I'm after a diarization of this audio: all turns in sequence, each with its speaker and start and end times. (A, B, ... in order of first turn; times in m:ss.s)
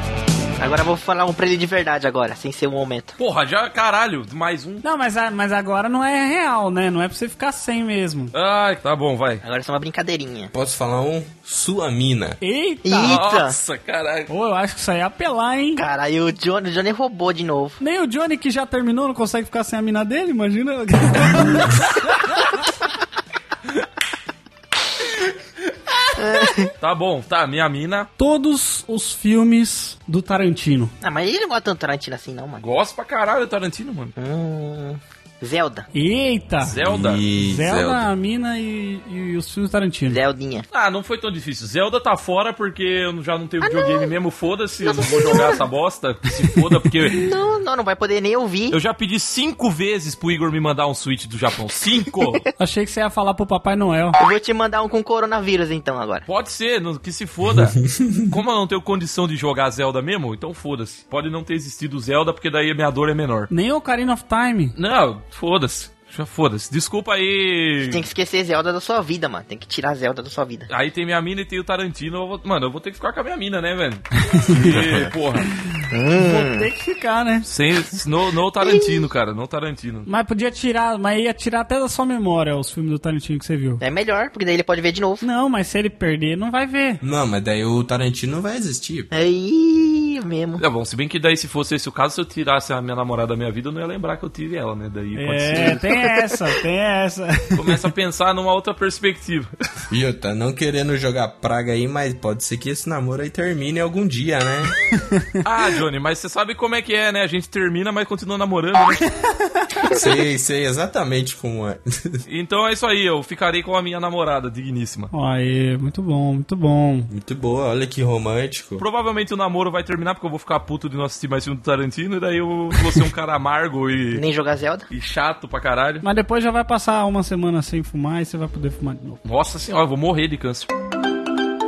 0:00.6-0:03.2 A
0:03.2-0:04.8 B
0:04.8-0:08.3 C
0:08.3-0:09.4 B
0:09.4-0:10.5 A
0:10.5-0:12.4 D
0:12.4-0:13.2 C
0:12.8-0:13.6 A
0:13.0-0:14.3 B
0:14.3-0:15.8 C
0:15.8-0:17.8 A
0:17.8-0:22.5 C
0:26.2-0:26.7 A
0:26.8-0:28.1 B
0:28.2-0:30.9 C
0:31.0-0:32.6 A
0:32.6-0:34.2 B
0:34.2-0:35.9 A
0:35.9-0:36.8 C
0:36.6-0:37.2 B
0:36.7-0:38.1 D
0:37.3-0:40.2 C
0:40.1-0:40.7 A
0:40.7-0:47.3 B
0:43.6-0:44.1 A
0:44.8-0:45.6 A
0:47.1-0:48.8 A
0:48.7-0:52.4 B
0:52.6-0:54.2 C
0:54.2-0:56.3 A
0:56.3-1:03.5 B
0:57.9-0:58.2 D
1:03.5-1:04.8 C
1:04.8-1:08.1 B
1:07.9-1:10.7 A
1:10.7-1:15.5 B
1:14.3-1:14.6 C
1:14.7-1:15.1 D
1:15.7-1:17.5 C
1:15.9-1:16.7 A
1:17.4-1:20.1 B
1:18.6-1:19.0 A
1:20.1-1:23.8 C
1:23.8-1:25.2 A
1:25.2-1:27.0 C
1:27.0-1:29.1 D
1:29.1-1:30.6 A
1:30.6-1:35.9 B
1:35.2-1:37.8 C
1:37.6-1:39.5 B
1:39.9-1:44.8 D
1:45.0-1:45.4 C
1:45.4-1:49.1 B
1:49.6-1:49.9 C
1:49.9-1:52.2 D
1:52.3-1:55.1 B
1:55.1-1:57.1 C
1:57.1-1:58.8 D
1:58.8-2:04.2 B
2:04.1-2:04.9 A
2:04.9-2:06.0 B
2:06.0-2:09.2 C
2:09.2-2:10.7 B